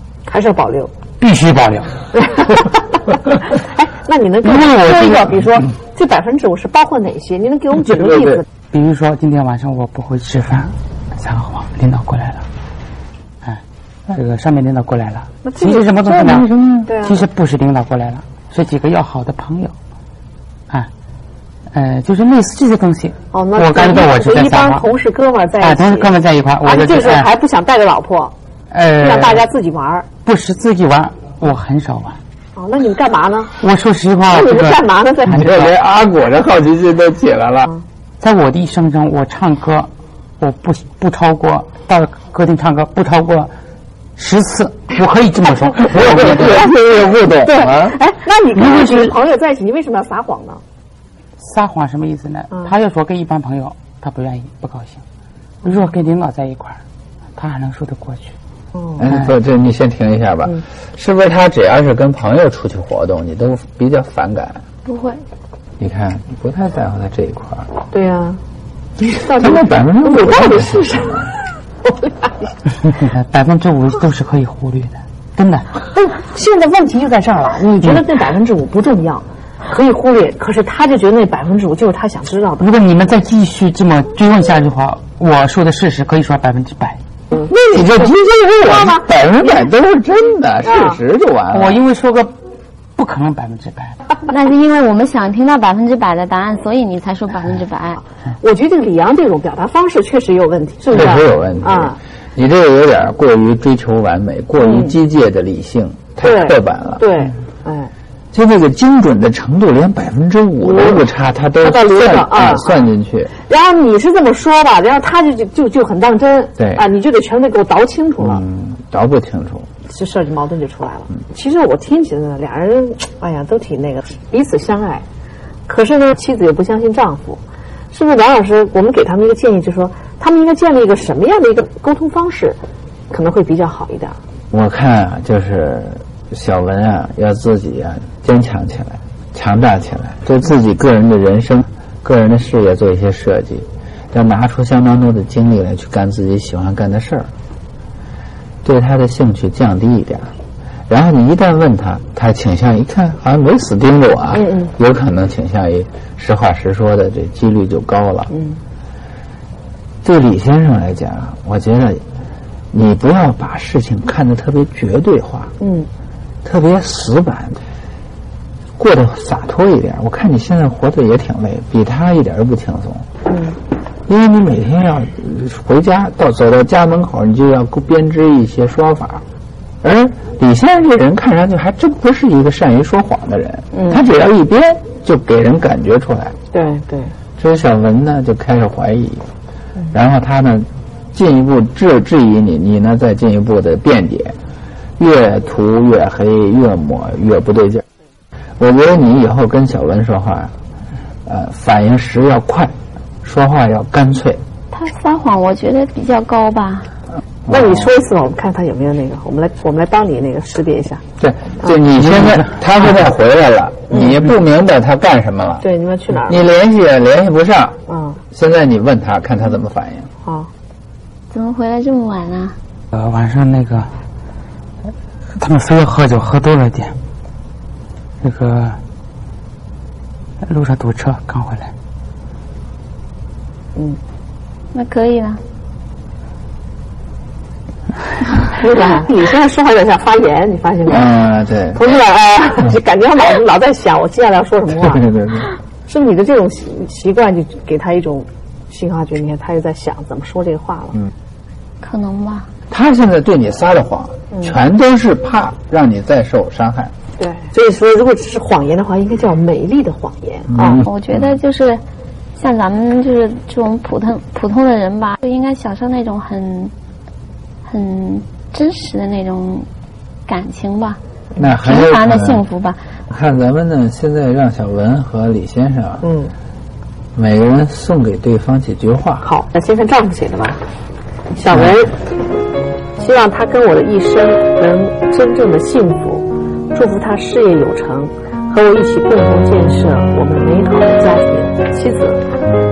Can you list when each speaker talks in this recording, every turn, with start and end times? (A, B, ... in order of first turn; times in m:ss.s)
0:00.3-0:00.9 A
0:01.2-0:02.0 B
0:02.1-0:08.5 A
0:04.4-0:05.4 B
0:08.7-0:12.5 B
0:13.4-0:19.8 B
0:15.4-0:17.2 A
0:21.7-0:24.9 B
0:23.3-0:28.3 A
0:25.6-0:27.3 B
0:28.7-0:29.5 B
0:29.0-0:30.1 A
0:30.2-0:32.2 B
0:32.6-0:33.6 A
0:33.6-0:35.7 B
0:34.2-0:35.7 A
0:35.3-0:37.7 C
0:38.2-0:43.5 B
0:44.2-0:46.7 B
0:46.0-0:48.0 C
0:46.2-0:46.7 A
0:47.4-0:50.6 A
0:48.5-0:49.2 B
0:51.4-0:55.0 B
0:55.6-0:56.8 B
0:57.4-0:58.4 B
0:58.7-0:59.0 A
0:59.0-1:04.6 C
0:59.0-0:59.3 B
1:04.8-1:05.2 D
1:05.8-1:07.7 C
1:07.9-1:08.4 A
1:09.0-1:11.3 C
1:09.2-1:12.3 A
1:12.8-1:15.8 B
1:15.9-1:22.7 A
1:17.8-1:18.0 B
1:22.6-1:27.0 B
1:27.4-1:31.8 C
1:28.6-1:29.7 A
1:30.7-1:31.0 A
1:31.5-1:32.3 B
1:33.0-1:34.0 B
1:34.3-1:38.0 D
1:38.4-1:42.0 A
1:40.9-1:47.1 C
1:44.6-1:45.0 A
1:46.2-1:47.9 A
1:48.3-1:53.3 C
1:50.6-1:51.0 A
1:51.6-1:52.9 A
1:53.4-1:58.4 A
1:56.6-1:56.8 C
1:58.2-1:59.7 C
1:59.9-2:05.0 A
2:05.7-2:07.4 A
2:07.9-2:12.6 A
2:13.1-2:14.2 A
2:14.5-2:27.3 C
2:28.6-2:30.3 C
2:30.9-2:38.3 C
2:34.3-2:34.7 A
2:38.3-2:38.6 A
2:40.0-2:42.0 C
2:42.7-2:45.6 C
2:45.6-2:45.9 A
2:46.4-2:47.6 C
2:48.8-2:53.1 C
2:53.3-2:53.6 A
2:54.1-2:59.2 C
2:59.8-3:06.4 C
3:03.7-3:04.0 A
3:06.5-3:07.1 A
3:07.4-3:09.3 C
3:09.9-3:14.4 C
3:15.0-3:17.8 C
3:18.6-3:20.5 C
3:21.3-3:24.4 C
3:24.7-3:26.9 D
3:27.5-3:31.0 A
3:31.2-3:35.6 C
3:32.0-3:32.5 B
3:35.6-3:36.5 A
3:36.3-3:37.8 C
3:37.9-3:38.2 A
3:38.3-3:40.1 C
3:40.2-3:40.5 A
3:41.3-3:42.6 D
3:42.9-3:43.9 B
3:45.4-3:47.0 B
3:48.2-3:48.8 B
3:50.4-3:51.7 B
3:54.7-3:55.4 D
3:58.6-4:01.1 A
4:00.9-4:01.8 C
4:01.8-4:05.0 A
4:04.8-4:05.5 C
4:05.9-4:11.0 A
4:11.8-4:12.5 D
4:12.7-4:16.9 C
4:17.2-4:20.8 A
4:20.5-4:21.4 C
4:20.8-4:21.8 D
4:22.4-4:26.7 D
4:27.6-4:29.7 D
4:30.3-4:31.0 D
4:31.4-4:32.4 C
4:31.6-4:32.8 D
4:33.1-4:36.0 C
4:36.0-4:36.3 A
4:37.2-4:39.3 C
4:39.2-4:40.6 A
4:41.4-4:42.0 A
4:43.0-4:52.2 A